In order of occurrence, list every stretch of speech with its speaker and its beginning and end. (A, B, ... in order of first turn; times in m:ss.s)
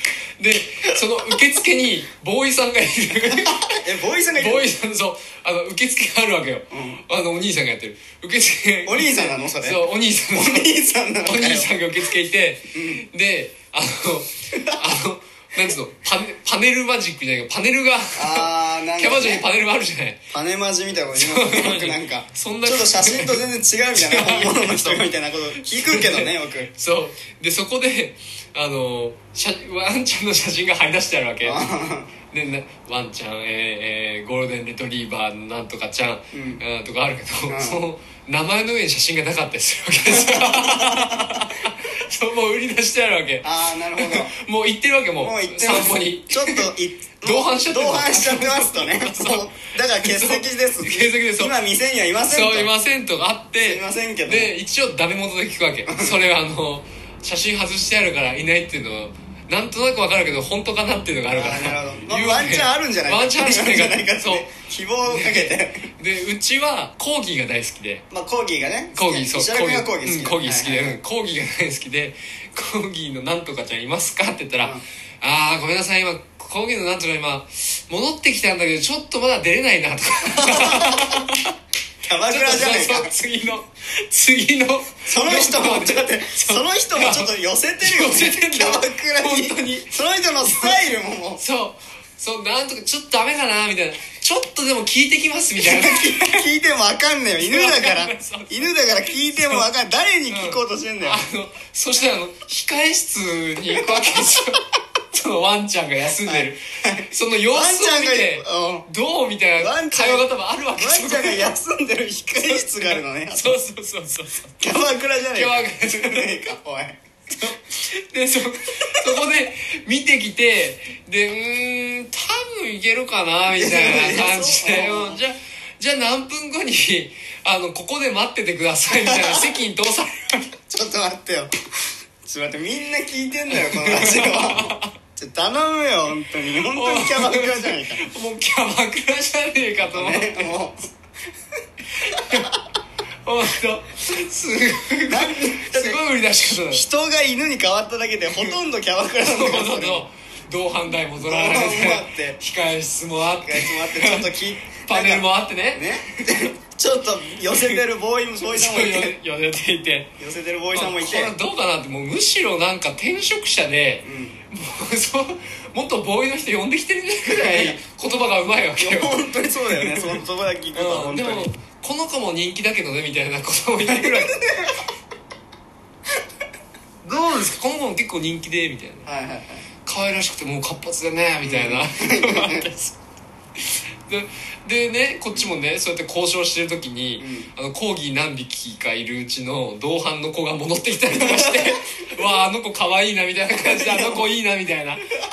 0:00.4-0:03.6 A
0:03.2-0:04.7 B
0:04.3-0:20.2 A
0:06.7-0:07.0 B
0:08.8-0:11.7 B
0:12.7-0:13.0 B
0:14.5-0:14.9 B
0:18.1-0:19.4 B
0:20.3-0:26.7 B
0:21.1-0:25.0 A
0:25.6-0:31.7 A
0:31.4-0:32.1 B
0:32.3-0:46.7 A
0:36.3-0:36.6 B
0:37.5-0:37.8 B
0:40.0-0:41.4 B
0:43.4-0:44.3 B
0:45.2-0:52.7 B
0:47.2-0:51.6 A
0:52.2-1:04.5 A
0:53.6-0:54.5 B
0:55.9-0:56.2 B
1:01.3-1:05.9 B
1:05.0-1:08.0 A
1:08.1-1:11.0 B
1:08.9-1:21.5 A
1:20.2-1:21.2 B
1:22.0-1:23.1 B
1:22.2-1:29.9 A
1:25.0-1:31.4 B
1:30.4-1:30.8 A
1:31.4-1:36.4 A
1:35.6-1:41.2 B
1:37.4-1:39.7 A
1:40.3-1:44.6 A
1:43.7-1:44.4 B
1:45.1-1:51.5 A
1:46.2-1:48.8 B
1:49.6-1:53.6 B
1:52.3-1:54.5 A
1:54.6-1:57.5 B
1:55.3-1:56.5 A
1:57.4-2:10.5 A
2:03.5-2:05.2 B
2:08.9-2:09.6 B
2:10.7-2:11.5 B
2:12.2-2:18.0 B
2:13.5-2:14.9 A
2:16.5-2:20.5 A
2:19.8-2:20.9 B
2:22.0-2:22.6 A
2:22.1-2:22.4 B
2:23.2-2:26.8 A
2:25.1-2:30.0 B
2:29.2-2:34.3 A
2:31.2-2:32.4 B
2:33.3-2:39.1 B
2:34.9-2:35.8 A
2:37.5-2:37.8 A
2:38.4-2:40.1 A
2:40.2-2:41.3 B
2:40.7-2:50.2 A
2:44.0-2:44.4 B
2:47.2-2:47.8 B
2:48.8-2:51.5 B
2:50.7-2:54.4 A
2:53.8-2:54.8 B
2:57.0-2:59.1 A
2:59.0-2:59.6 B
2:59.8-3:03.0 A
3:01.4-3:02.7 B
3:03.6-3:15.1 A
3:07.2-3:07.5 B
3:11.1-3:12.4 B
3:13.5-3:14.3 B